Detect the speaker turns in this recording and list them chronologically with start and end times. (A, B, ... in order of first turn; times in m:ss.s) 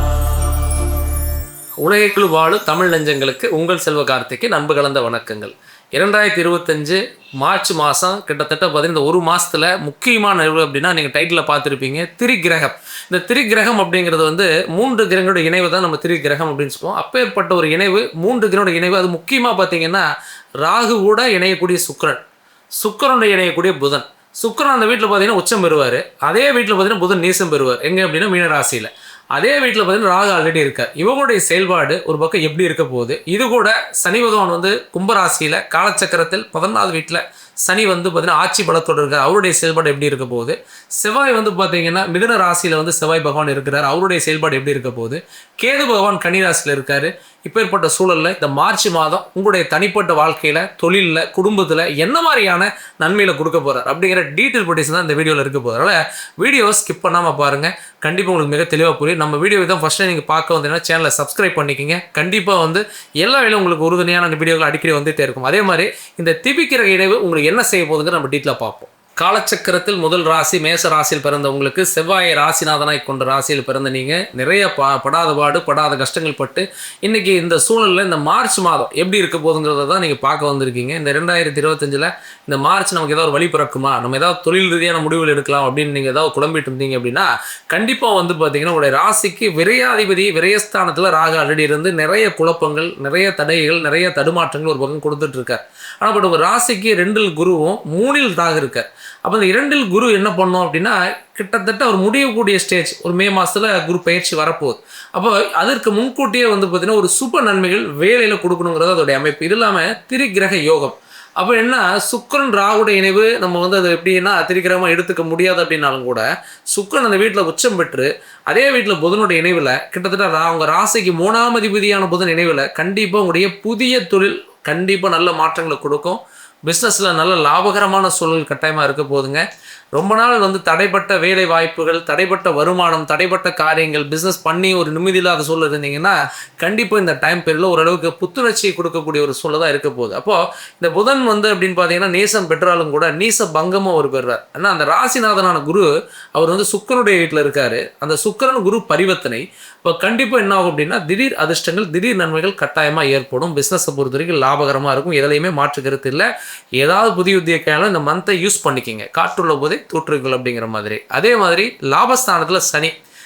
0:01.8-0:20.1 A
0:20.6-0:22.2 A
0:22.8-2:42.9 A